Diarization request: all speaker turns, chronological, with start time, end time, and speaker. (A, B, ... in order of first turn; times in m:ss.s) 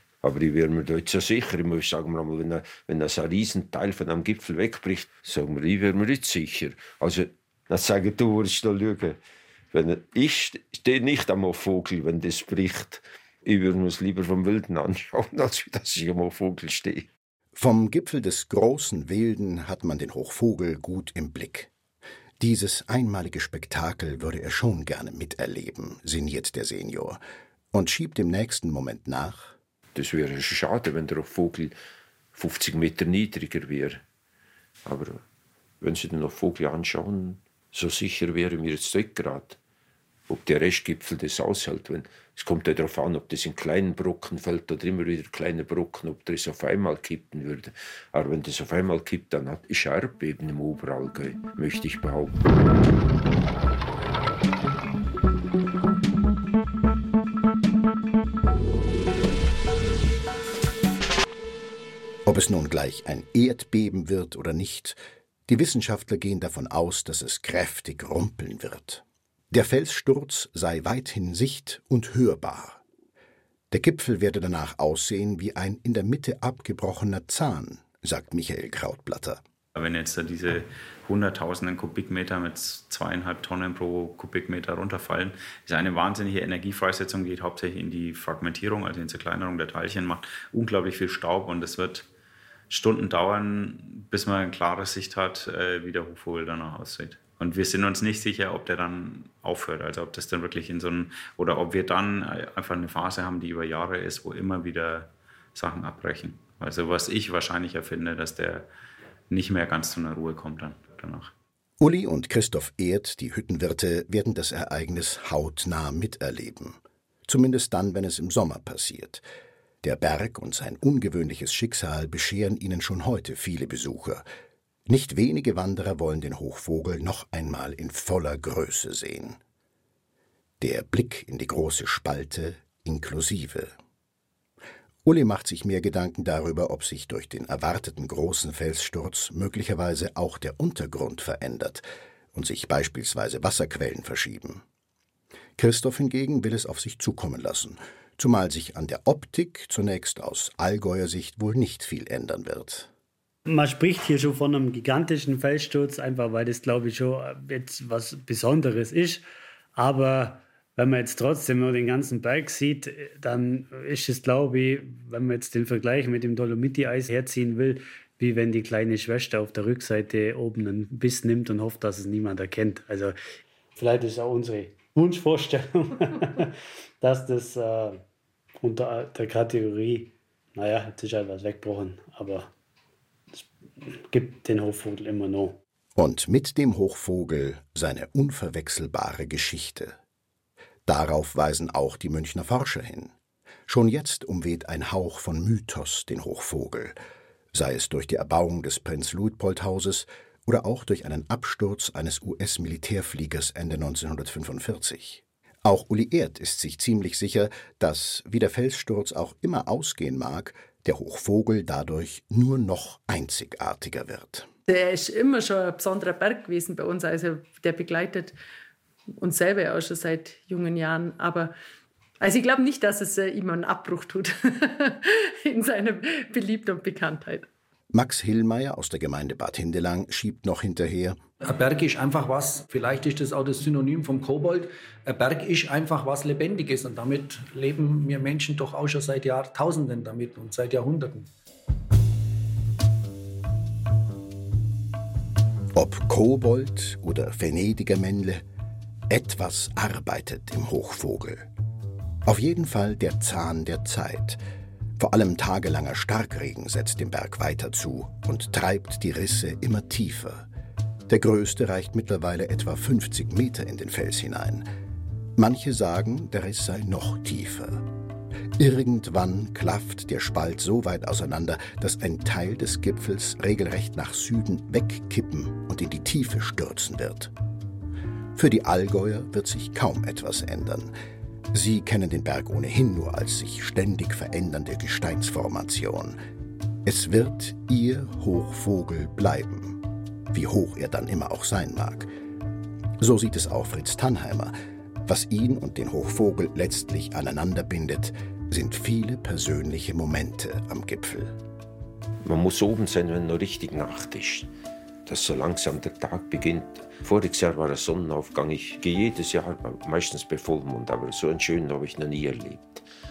0:00.2-0:09.2 A
0:09.7-0:17.1 A
0:17.6-0:21.7 B
0:22.4-0:27.2 B
0:27.7-0:29.6 B
0:30.0-0:31.7 A
0:32.3-0:34.0 A
0:34.8-0:35.2 A
0:35.8-0:39.6 A
0:40.3-0:52.4 A
1:02.3-1:12.8 B
1:13.7-1:19.4 B
1:19.8-1:32.1 C
1:32.7-1:48.7 C
1:49.3-1:51.3 C
1:51.8-1:59.2 B
1:59.8-2:04.2 B
2:04.9-2:09.4 B
2:10.6-2:13.7 B
2:15.0-2:24.6 B
2:25.6-2:32.9 B
2:33.5-2:53.2 D
2:53.8-2:58.0 D
2:58.6-3:02.5 D
3:03.3-3:05.6 D
3:06.0-3:10.0 B
3:10.9-3:13.1 B
3:13.7-3:17.0 B
3:17.5-3:34.5 B
3:34.7-3:38.4 E
3:39.2-3:41.5 E
3:42.2-3:47.5 E
3:47.9-3:51.2 B
3:51.4-4:01.3 F
4:05.8-4:08.4 B
4:09.1-4:11.5 B
4:12.2-4:14.4 B
4:15.0-4:20.5 B
4:21.1-4:24.7 B
4:25.4-4:27.9 B
4:28.6-4:37.3 B
4:38.4-4:40.9 B
4:41.5-4:46.2 B
4:46.8-4:52.1 B
4:53.0-4:54.6 B
4:55.1-5:01.4 B
5:02.2-5:04.5 A
5:05.1-5:12.8 A